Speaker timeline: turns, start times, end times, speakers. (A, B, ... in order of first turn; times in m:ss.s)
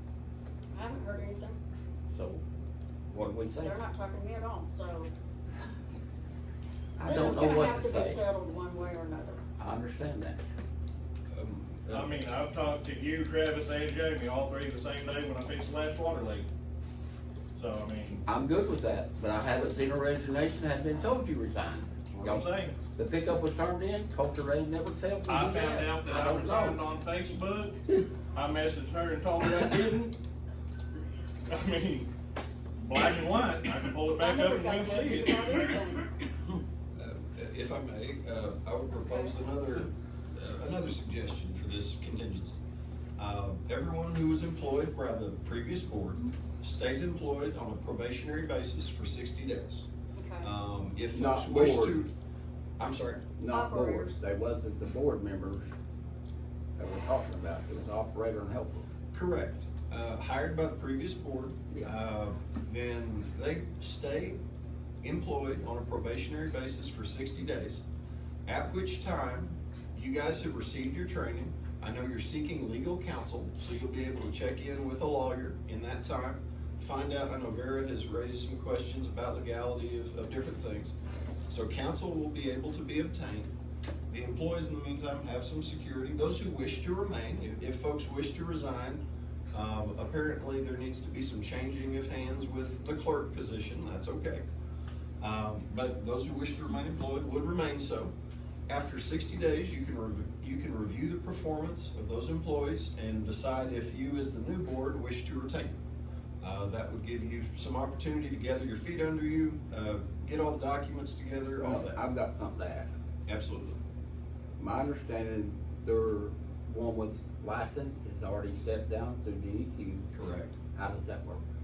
0:00.7-0:01.6 A
0:02.1-0:02.4 B
0:03.1-0:03.8 B
0:03.6-0:05.1 A
0:07.0-0:08.2 B
0:07.0-0:09.4 A
0:09.6-0:10.4 B
0:11.3-0:12.2 C
0:11.9-0:16.5 D
0:17.6-0:18.2 D
0:18.3-0:26.8 B
0:22.2-0:22.8 D
0:25.2-0:27.8 D
0:28.3-0:30.2 D
0:31.5-0:32.1 D
0:32.8-0:35.7 D
0:34.2-0:36.1 A
0:37.0-0:42.6 C
0:39.0-0:39.4 A
0:43.2-0:49.9 C
0:50.1-0:50.5 A
0:50.4-0:52.1 C
0:51.1-0:52.0 B
0:52.8-0:53.3 C
0:53.4-0:55.7 B
0:53.5-0:54.2 A
0:56.8-0:58.9 B
0:59.1-1:04.4 C
1:05.0-1:07.8 C
1:08.5-1:21.0 C
1:21.5-1:23.5 C
1:24.1-1:34.4 C
1:35.2-1:38.1 C
1:38.7-1:45.8 C
1:46.4-1:52.0 C
1:51.6-1:52.9 B
1:53.3-1:53.8 C
1:54.6-2:00.1 B
2:00.1-2:00.6 C
2:00.7-2:01.4 B